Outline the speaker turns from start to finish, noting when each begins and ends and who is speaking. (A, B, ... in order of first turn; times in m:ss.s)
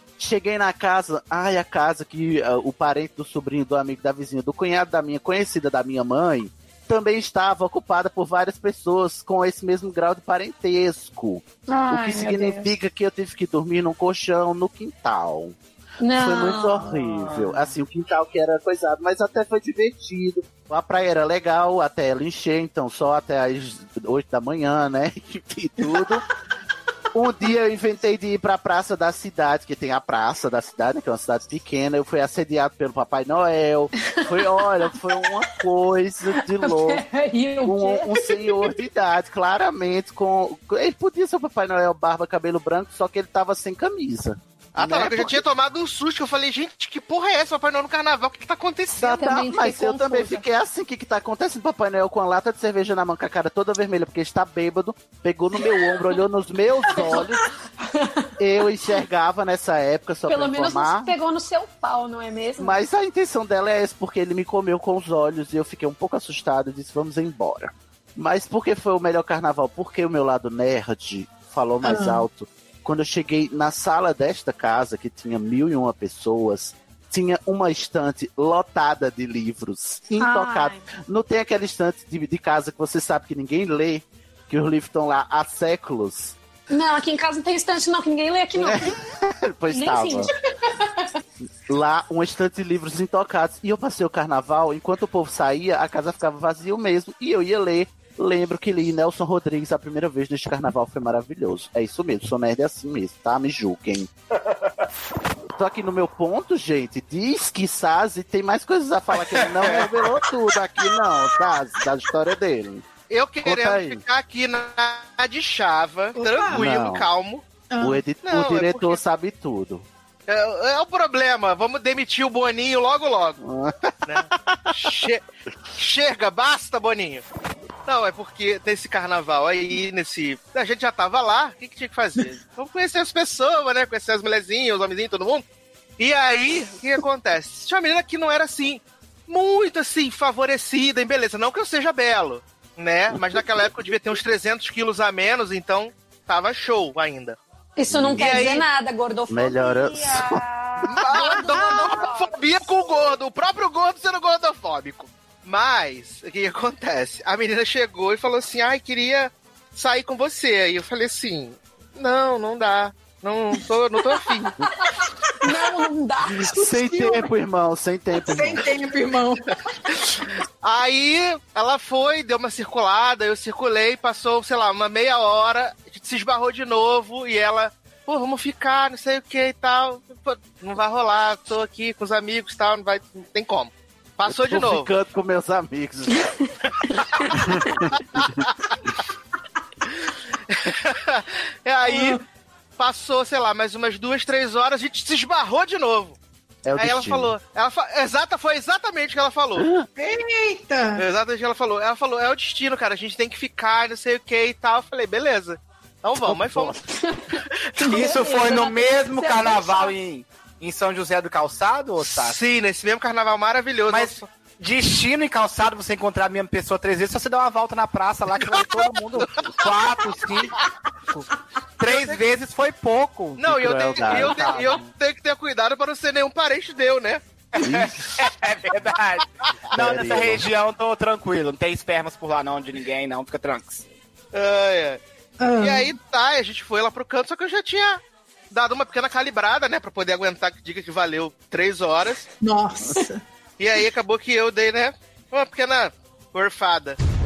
0:00.2-0:15.6 A
0:11.7-0:12.8 B
0:16.0-0:17.0 B
0:16.1-0:26.2 A
0:27.1-0:37.0 A
0:34.0-0:35.5 B
0:36.5-0:38.8 B
0:37.7-0:45.4 A
0:44.8-0:49.1 C
0:49.0-0:57.4 A
0:49.0-0:50.4 B
0:57.0-0:57.3 B
0:58.0-0:58.3 B
0:58.4-1:01.1 A
1:00.3-1:02.8 B
1:02.6-1:26.4 A
1:11.8-1:12.3 D
1:20.1-1:20.9 B
1:26.7-1:29.0 B
1:28.6-1:30.3 A
1:29.7-1:30.3 B
1:31.7-1:44.1 A
1:45.6-1:52.9 A
1:49.1-1:51.3 E
1:53.1-1:57.4 C
1:53.4-1:54.0 A
1:56.2-1:56.7 D
1:56.5-1:57.1 A
1:57.7-1:58.1 D
1:57.8-1:59.9 A
1:58.2-1:59.0 C
2:00.3-2:03.4 C
2:03.4-2:05.0 A
2:04.1-2:05.2 C
2:05.8-2:07.2 C
2:07.9-2:15.4 C
2:16.0-2:27.4 C
2:27.8-2:32.7 B
2:27.9-2:28.4 A
2:28.2-2:28.6 C
2:29.3-2:30.4 A
2:30.9-2:44.6 C
2:44.6-2:46.8 B
2:46.4-2:48.7 A
2:46.8-2:47.2 D
2:48.2-2:49.5 D
2:50.6-3:04.9 C
3:04.3-3:06.3 A
3:07.3-3:08.2 A
3:10.5-3:12.2 C
3:11.9-3:12.2 D
3:12.8-3:16.2 C
3:16.6-3:17.4 A
3:16.8-3:19.7 C
3:19.6-3:19.9 A
3:20.0-3:21.0 D
3:21.0-3:26.8 C
3:26.2-3:26.8 A
3:26.9-3:30.0 B
3:27.8-3:32.4 E
3:32.0-3:34.3 C
3:33.9-3:40.6 E
3:41.8-3:44.6 E
3:41.8-3:42.2 C
3:43.4-3:47.2 C
3:43.5-3:44.8 A
3:47.5-3:53.9 E
3:47.6-3:48.3 A
3:49.7-3:50.5 A
3:54.3-3:55.0 C
3:55.4-3:56.0 D
3:55.6-4:02.3 C
4:02.4-4:03.2 D
4:03.6-4:07.0 C